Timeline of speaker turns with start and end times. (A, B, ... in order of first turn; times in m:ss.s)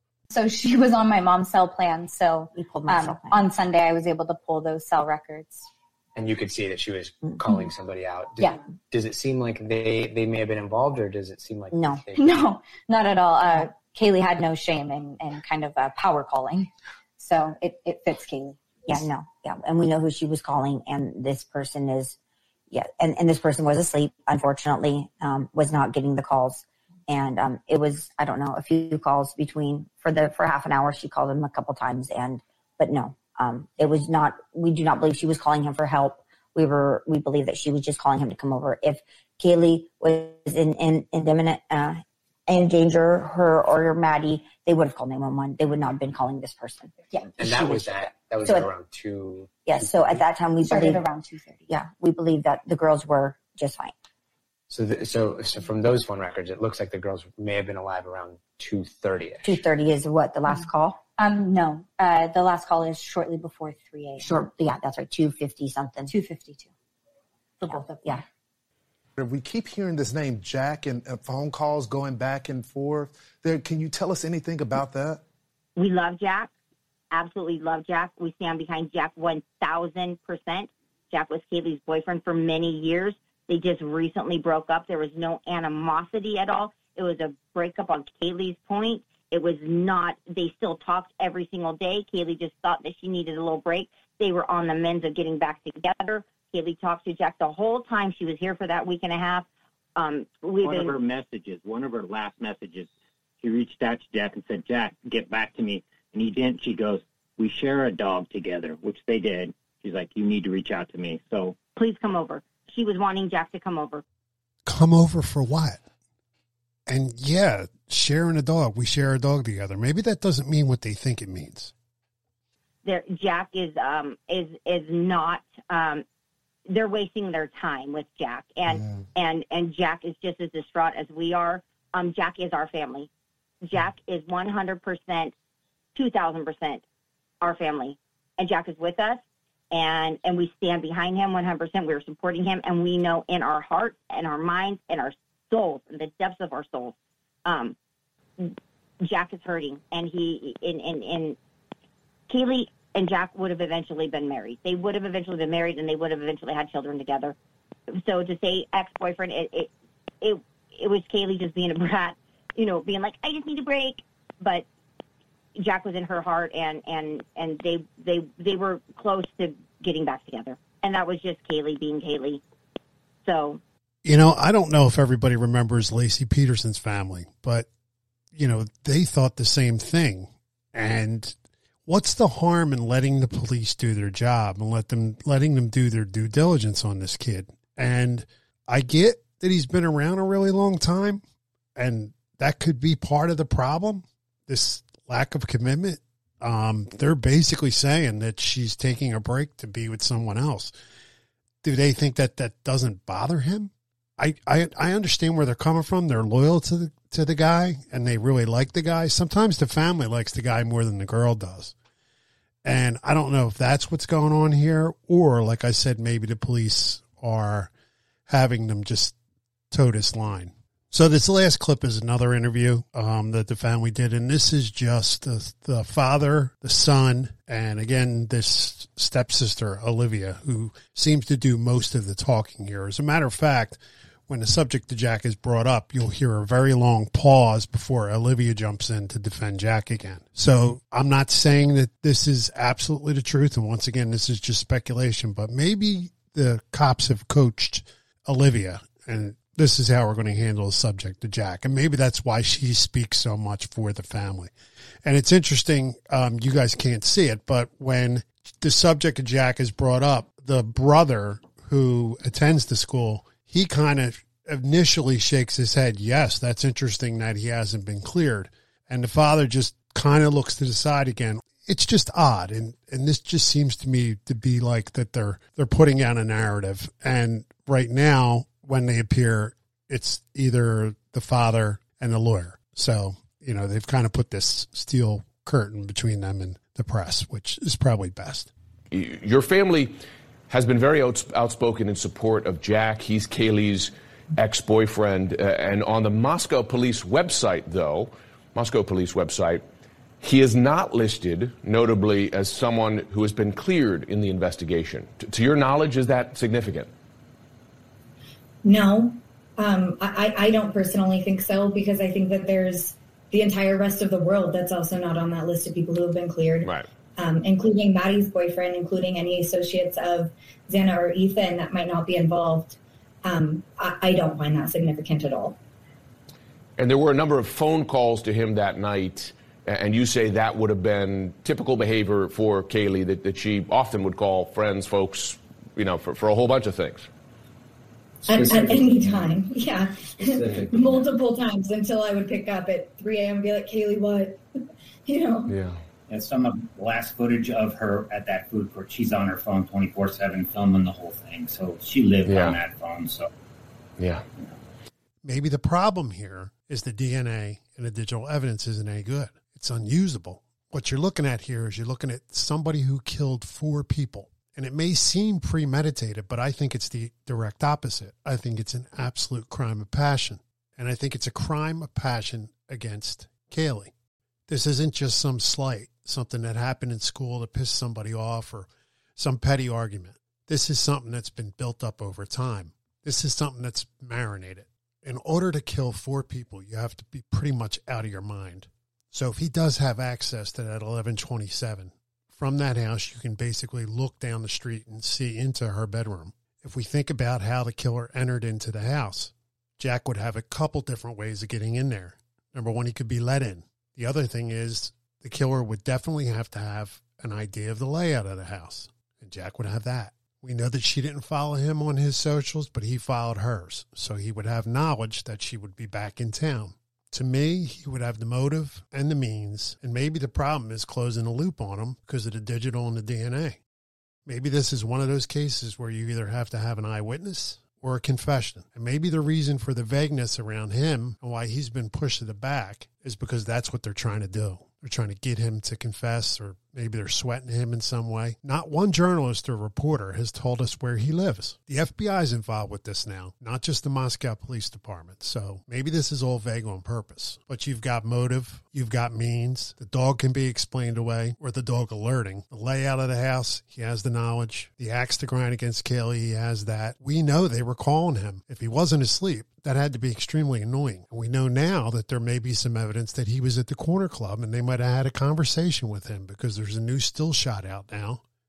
0:00.3-0:05.7 A
0:02.5-0:03.4 B
0:06.2-0:12.3 C
0:11.7-0:12.0 B
0:12.2-0:16.7 A
0:17.2-0:19.1 A
0:18.9-0:22.2 B
0:22.7-0:48.7 B
0:47.4-0:50.2 C
0:49.6-0:51.0 B
0:50.6-0:51.6 A
0:51.7-0:53.9 B
0:54.7-0:59.6 C
0:59.4-1:01.0 B
1:04.2-1:06.1 B
1:09.2-1:15.2 D
1:15.8-1:16.5 E
1:17.1-1:40.9 E
1:40.6-1:42.9 F
1:43.4-1:51.6 F
1:51.8-1:54.0 E
1:54.6-1:55.8 G
1:56.9-2:01.7 G
2:02.8-2:06.0 E
2:06.7-2:13.1 E
2:13.6-2:15.3 E
2:15.9-2:16.8 E
2:17.4-2:27.7 E
2:28.4-2:31.4 E
2:32.3-2:37.3 E
2:38.0-2:44.6 E
2:45.6-2:52.4 E
2:53.2-2:53.6 E
2:54.0-2:57.7 G
2:58.3-3:11.2 G
3:11.8-3:20.7 G
3:21.6-3:31.7 G
3:32.6-3:37.7 G
3:38.3-3:39.2 G
3:39.7-4:14.5 G
4:15.0-4:48.5 G
4:48.9-4:59.6 H
5:00.2-5:06.9 H
5:08.6-5:25.6 I
5:26.8-5:37.1 H
5:38.2-5:44.4 I
5:40.3-5:40.9 H
5:45.0-5:45.6 I
5:45.5-5:45.8 H
5:46.1-5:53.3 J
5:52.2-5:52.6 H
5:54.0-5:54.2 H
5:55.2-6:13.9 G
6:14.5-7:03.6 G
7:04.2-7:48.2 G